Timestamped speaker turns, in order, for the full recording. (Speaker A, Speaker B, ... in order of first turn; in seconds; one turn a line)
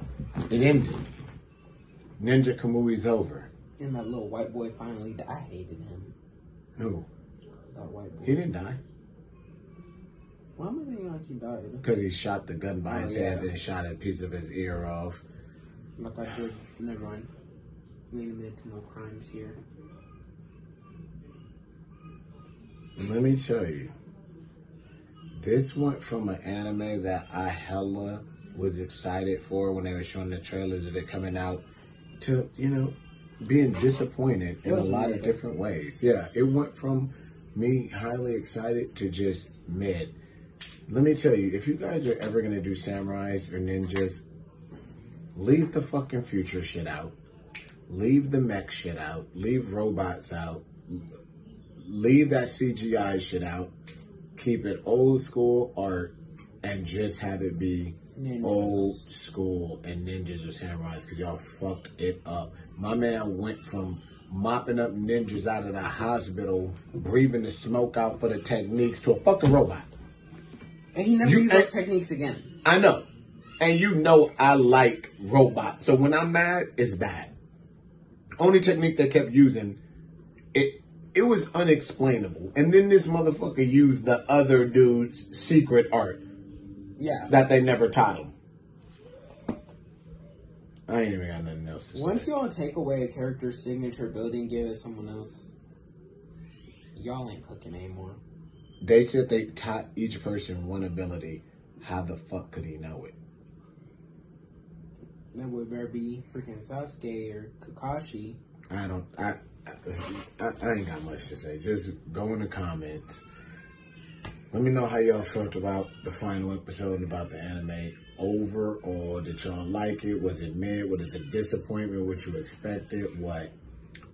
Speaker A: 0.5-1.1
Speaker A: 2.2-3.5
Speaker B: 3.8-6.1
Speaker A: 6.8-7.1
Speaker B: 7.7-8.4
Speaker A: 8.2-8.8
Speaker B: 10.6-11.8
Speaker A: 11.8-15.2
Speaker B: 12.8-13.5
Speaker B: 16.0-17.3
Speaker B: 18.1-19.6
Speaker A: 23.0-23.9
Speaker A: 25.4-31.6
Speaker A: 32.2-40.1
Speaker B: 34.6-35.3
Speaker A: 40.9-44.3
Speaker A: 45.3-47.1
Speaker A: 47.9-51.1
Speaker A: 51.8-53.7
Speaker A: 54.4-69.9
Speaker B: 58.1-59.0
Speaker B: 70.9-72.5
Speaker A: 71.2-71.7
Speaker A: 72.6-73.0
Speaker A: 73.6-77.3
Speaker A: 78.4-79.8
Speaker A: 80.5-86.2
Speaker B: 87.0-87.3
Speaker A: 87.3-88.3
Speaker A: 90.9-92.3
Speaker B: 91.9-95.6
Speaker B: 96.9-98.2
Speaker A: 98.8-103.2
Speaker B: 105.3-108.4
Speaker A: 108.7-113.2
Speaker A: 114.5-123.5